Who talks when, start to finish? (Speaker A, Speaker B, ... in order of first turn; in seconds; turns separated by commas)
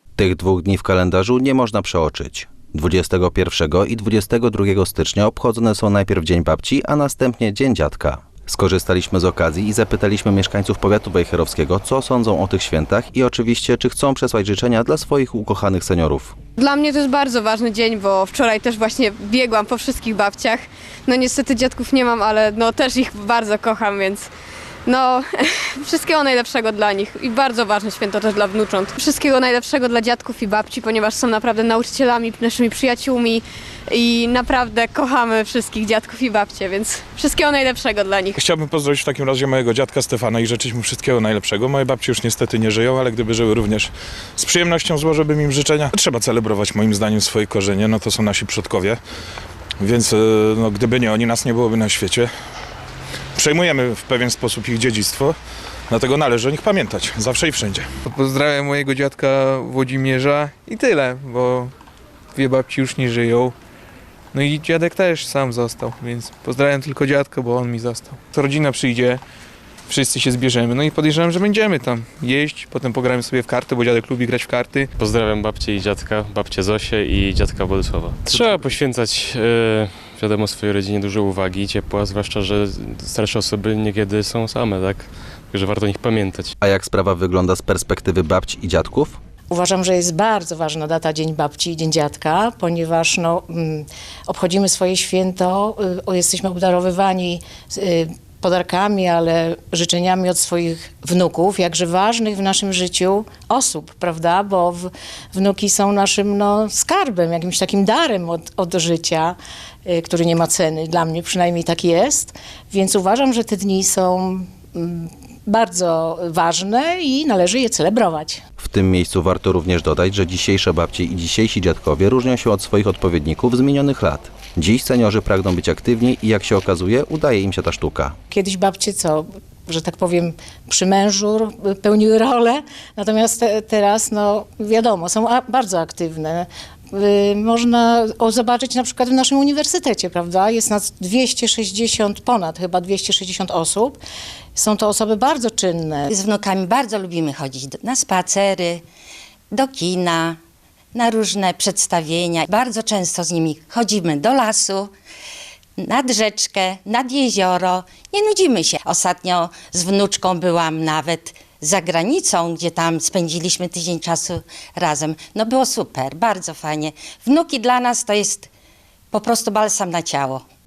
Speaker A: 0.2-16.4, Speaker B: 16.6-24.3, Speaker B: 24.9-38.4, Speaker C: 38.4-49.0, Speaker C: 49.8-52.3, Speaker C: 53.4-55.4, Speaker C: 55.9-57.9, Speaker D: 58.0-61.7, Speaker D: 62.4-63.5, Speaker D: 64.3-69.2, Speaker D: 69.9-74.9, Speaker E: 75.0-86.5, Speaker A: 78.3-78.7, Speaker A: 86.6-89.2, Speaker F: 89.5-118.4, Speaker A: 118.6-128.2, Speaker F: 128.3-144.0, Speaker F: 144.6-146.1, Speaker G: 146.1-148.8, Speaker G: 149.5-150.4, Speaker G: 150.9-154.9, Speaker G: 155.8-168.5, Speaker G: 169.1-170.4